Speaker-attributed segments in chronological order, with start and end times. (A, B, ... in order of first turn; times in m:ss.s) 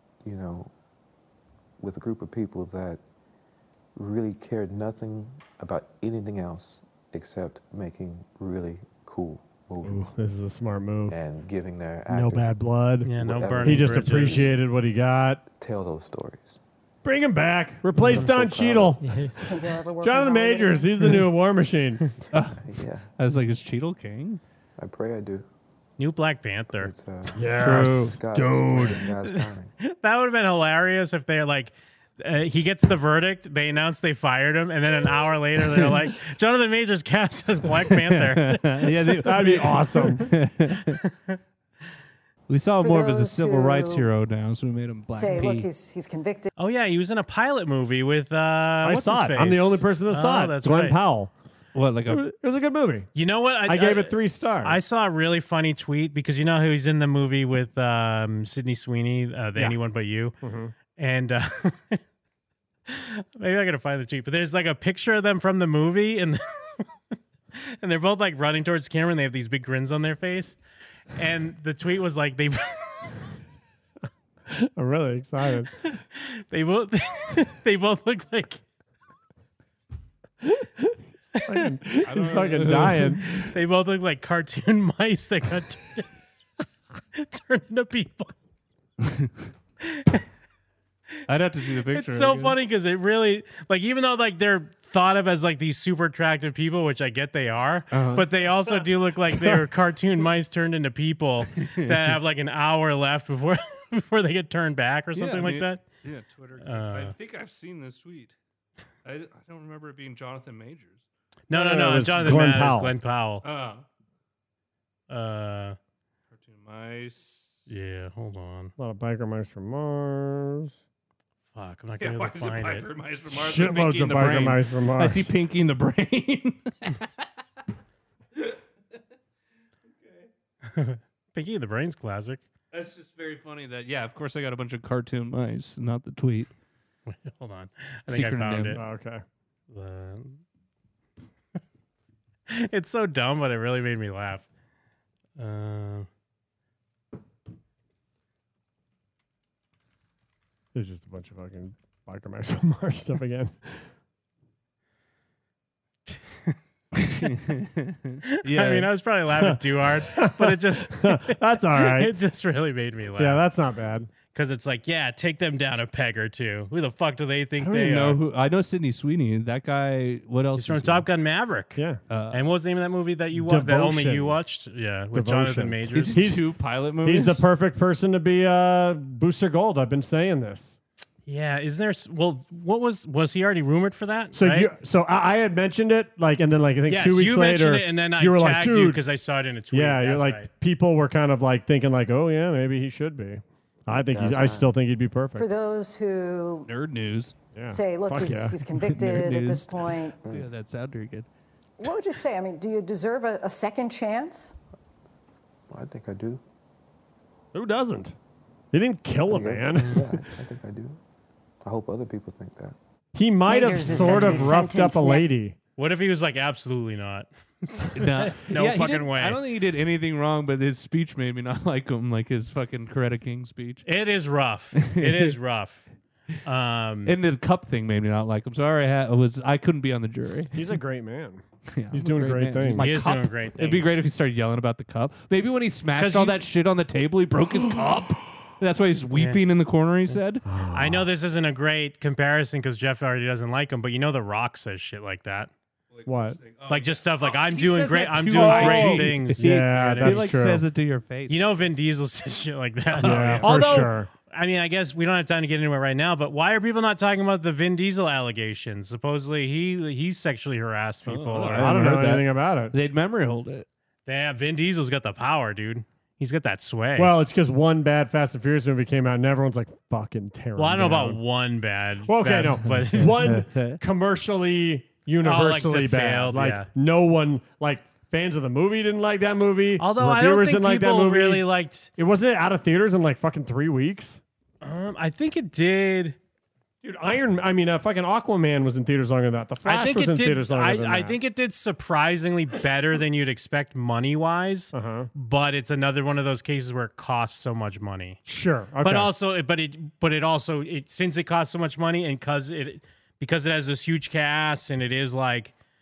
0:00.2-0:00.7 A
0:01.8-0:03.0 A
0:03.9-0:10.1 A
0:09.8-0:11.2 B
0:11.1-0:12.5 A
0:12.1-0:15.4 B
0:13.0-0:14.5 C
0:13.1-0:14.5 A
0:15.4-0:16.6 A
0:17.0-0:19.0 B
0:18.0-0:19.0 A
0:19.0-0:19.3 C
0:19.4-0:21.0 D
0:20.0-0:22.0 B
0:22.3-0:24.4 E
0:22.5-0:23.1 A
0:24.8-0:25.4 A
0:26.0-0:26.9 C
0:26.7-0:29.7 A
0:27.3-0:29.1 B
0:27.5-0:28.2 E
0:29.2-0:38.8 C
0:37.8-0:41.0 E
0:39.2-0:40.3 B
0:41.0-0:41.4 C
0:42.5-0:45.7 E
0:42.8-0:44.1 D
0:45.1-0:46.5 D
0:46.6-0:51.0 C
0:48.8-0:51.3 B
0:51.7-0:52.2 E
0:52.1-0:53.1 B
0:53.1-1:00.4 C
0:53.6-0:54.8 B
1:00.4-1:00.7 B
1:00.9-1:02.0 C
1:02.9-1:06.8 C
1:07.5-1:10.6 C
1:11.1-1:13.2 C
1:14.5-1:15.7 B
1:15.8-1:18.6 C
1:20.4-1:23.4 B
1:22.0-1:23.2 E
1:23.3-1:26.1 C
1:27.1-1:28.3 C
1:29.0-1:29.3 E
1:29.8-1:30.2 C
1:31.3-1:32.6 E
1:31.9-1:45.8 C
1:37.9-1:38.3 E
1:41.5-1:42.2 E
1:45.1-1:48.3 E
1:46.6-1:47.1 C
1:49.0-1:51.0 E
1:51.5-1:53.4 C
1:51.5-1:52.9 B
1:52.3-1:52.5 E
1:53.4-1:53.8 E
1:55.1-1:55.8 C
1:56.3-1:57.6 E
1:57.7-1:58.7 C
1:58.8-2:00.7 B
2:01.5-2:02.9 C
2:02.0-2:07.1 E
2:03.3-2:05.3 B
2:10.0-2:10.3 E
2:10.7-2:12.4 C
2:12.7-2:16.5 E
2:17.1-2:18.8 C
2:18.1-2:18.8 E
2:18.7-2:19.2 B
2:19.7-2:20.4 C
2:22.5-2:24.4 C
2:25.4-2:26.1 C
2:30.7-2:33.8 B
2:36.9-2:38.9 E
2:38.3-2:43.4 C
2:40.1-2:42.1 B
2:43.2-2:44.1 B
2:44.3-2:48.2 C
2:47.6-2:51.1 E
2:50.6-2:56.2 C
2:51.8-2:52.0 B
2:52.1-2:52.5 E
2:53.3-2:54.4 B
2:55.1-2:56.4 B
2:55.9-2:57.4 E
2:57.0-3:00.8 B
3:01.3-3:04.7 C
3:04.3-3:09.0 B
3:06.9-3:10.5 C
3:09.7-3:15.5 B
3:13.9-3:14.7 A
3:15.4-3:16.7 D
3:16.7-3:17.3 E
3:17.5-3:18.6 B
3:17.7-3:20.2 D
3:18.3-3:21.3 E
3:20.2-3:20.5 A
3:21.8-3:24.6 D
3:25.7-3:26.4 A
3:27.5-3:28.1 B
3:28.7-3:30.2 B
3:29.2-3:31.0 A
3:31.6-3:32.8 A
3:33.1-3:35.6 B
3:33.4-3:35.3 D
3:34.0-3:34.4 C
3:35.8-3:39.4 C
3:37.9-3:43.8 E
3:43.8-3:45.8 C
3:44.7-3:45.3 E
3:46.4-3:47.1 C
3:47.0-3:50.5 E
3:50.5-3:52.8 B
3:51.7-4:00.4 E
3:52.8-3:54.0 C
3:56.0-3:56.4 C
3:59.1-3:59.4 C
4:00.4-4:01.1 B
4:00.7-4:05.5 C
4:05.9-4:11.6 E
4:06.0-4:06.4 B
4:06.7-4:10.2 C
4:08.3-4:10.6 B
4:11.3-4:21.8 C
4:13.0-4:13.9 E
4:13.0-4:14.1 B
4:21.1-4:23.6 E
4:21.4-4:22.8 B
4:24.0-4:27.1 C
4:27.0-4:31.2 B
4:30.6-4:33.2 C
4:32.1-4:44.2 B
4:32.6-4:33.8 E
4:35.2-4:36.7 C
4:39.8-4:41.9 C
4:44.6-4:46.2 C
4:46.8-4:51.2 B
4:49.6-4:58.2 C
4:54.7-4:55.1 B
4:58.2-4:59.1 B
4:58.8-5:05.5 C